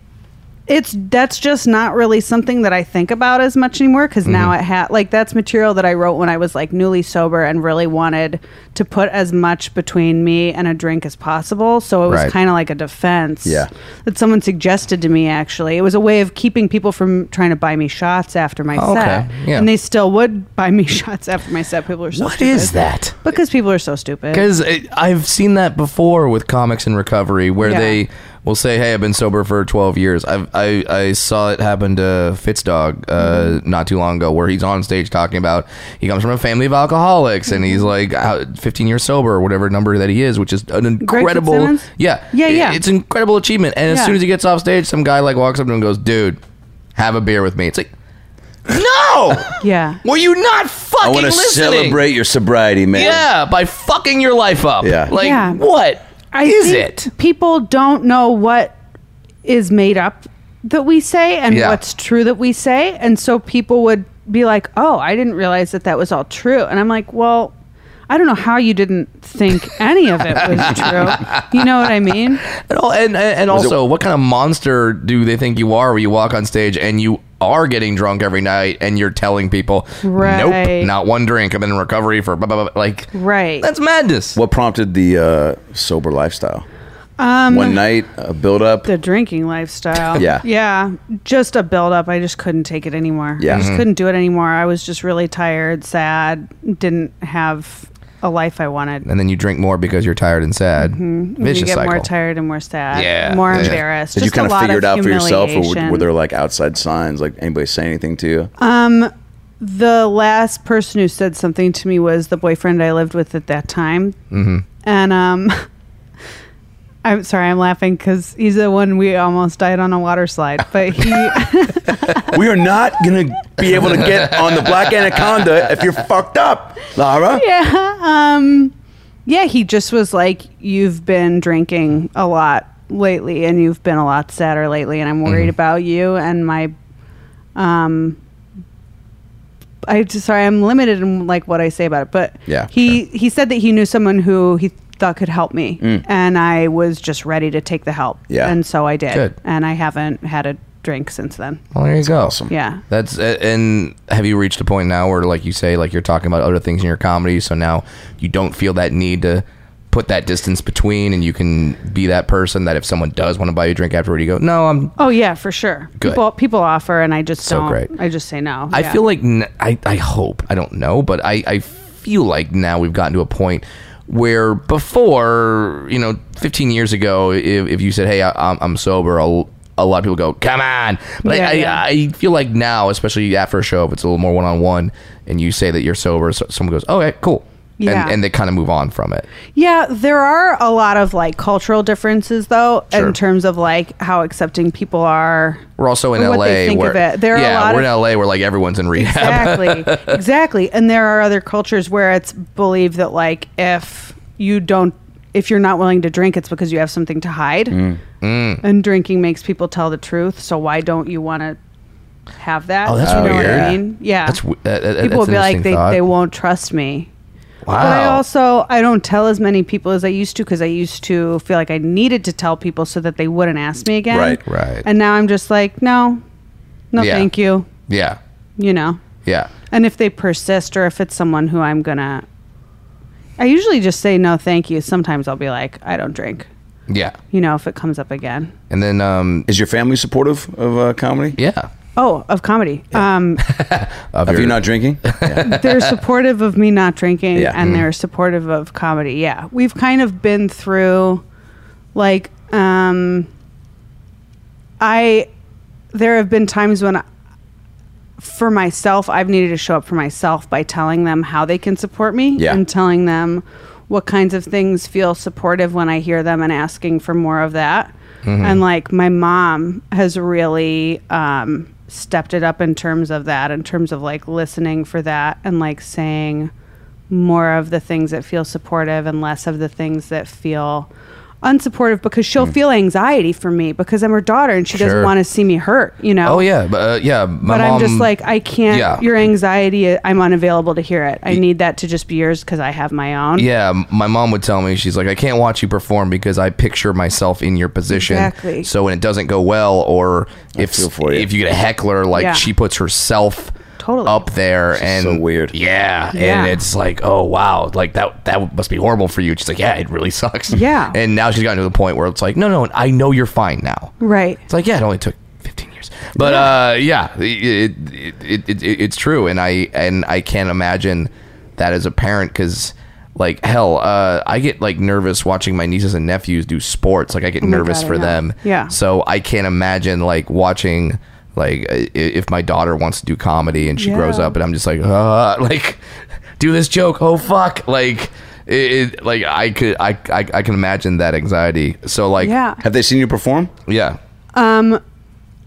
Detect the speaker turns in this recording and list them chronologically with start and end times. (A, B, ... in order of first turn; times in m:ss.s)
0:00.7-0:24.4 A
0:04.2-0:04.5 B
0:12.1-0:12.3 B
0:18.7-0:19.7 B
0:22.1-0:23.2 B
0:24.3-0:46.4 B
0:27.6-0:28.0 A
0:33.2-0:33.6 A
0:37.5-0:37.9 A
0:41.0-0:42.8 A
0:43.9-0:44.1 A
0:47.0-0:47.9 B
0:48.7-0:52.0 B
0:49.6-0:50.0 A
0:51.0-0:53.2 C
0:52.9-0:57.1 B
0:54.8-0:55.1 C
0:55.2-0:55.6 A
0:56.3-0:58.8 A
0:59.4-1:07.5 A
1:01.5-1:01.8 B
1:08.1-1:12.4 A
1:10.3-1:24.4 B
1:13.5-1:13.8 C
1:20.0-1:20.9 A
1:23.1-1:23.7 A
1:24.3-1:26.6 C
1:27.2-1:27.8 A
1:27.5-1:28.9 C
1:28.8-1:39.0 A
1:30.2-1:30.4 C
1:33.4-1:33.7 C
1:33.5-1:33.8 B
1:39.0-1:42.1 B
1:40.8-1:46.1 A
1:42.9-1:43.8 B
1:43.5-1:48.5 C
1:48.6-1:54.2 A
1:54.3-1:54.6 B
1:54.8-1:55.6 A
1:57.0-2:02.3 A
2:02.3-2:07.4 C
2:04.3-2:05.4 B
2:07.3-2:08.7 A
2:09.2-2:16.7 A
2:15.2-2:15.5 B
2:17.6-2:18.2 A
2:19.8-2:31.6 A
2:22.5-2:22.7 C
2:28.3-2:28.5 C
2:31.7-2:32.4 B
2:32.0-2:32.5 C
2:32.5-2:32.8 A
2:32.9-2:44.9 B
2:45.0-2:49.0 A
2:47.4-2:47.9 B
2:48.7-3:09.3 B
3:01.2-3:01.8 A
3:07.8-3:08.2 A
3:09.5-3:15.6 A
3:15.8-3:20.2 B
3:16.2-3:17.9 A
3:19.0-3:27.8 A
3:27.7-3:28.0 C
3:28.2-3:28.6 B
3:28.6-3:31.6 A
3:32.4-3:34.4 A
3:32.8-3:36.0 B
3:33.0-3:33.7 C
3:35.0-3:37.1 A
3:37.6-3:38.2 B
3:37.8-3:46.2 A
3:44.1-3:44.4 C
3:44.4-3:44.8 B
3:46.9-3:47.7 A
3:47.0-3:47.3 B
3:47.9-3:48.2 B
3:48.6-3:49.0 A
3:49.2-3:49.5 B
3:49.7-3:52.2 A
3:53.4-3:56.5 A
3:56.9-3:57.2 B
3:57.3-3:58.5 A
3:58.7-3:59.5 B
3:59.5-4:01.4 C
4:01.4-4:01.7 B
4:02.0-4:03.4 A
4:03.4-4:05.9 B
4:04.2-4:05.5 C
4:05.4-4:11.2 A
4:07.6-4:07.8 B
4:11.9-4:13.3 A
4:14.8-4:15.3 A
4:15.9-4:17.0 A
4:18.2-4:36.5 A
4:28.2-4:28.6 B
4:37.1-4:40.9 A
4:41.4-4:46.4 A
4:44.7-4:45.1 B
4:46.2-4:48.1 B
4:47.4-4:53.5 A
4:48.7-4:49.0 B
4:53.4-5:03.5 B
4:57.9-4:58.7 A
5:00.5-5:01.3 C
5:02.1-5:02.5 A
5:03.8-5:04.2 A
5:04.0-5:13.9 B
5:04.8-5:05.5 C
5:06.1-5:06.5 A
5:10.5-5:11.0 A
5:14.0-5:14.4 A
5:14.5-5:35.8 B
5:16.2-5:16.5 A
5:27.4-5:28.7 A
5:33.8-5:34.3 A
5:36.4-5:42.3 B
5:42.2-5:42.6 A
5:42.6-5:43.5 C
5:43.7-5:44.0 B
5:44.3-5:44.8 A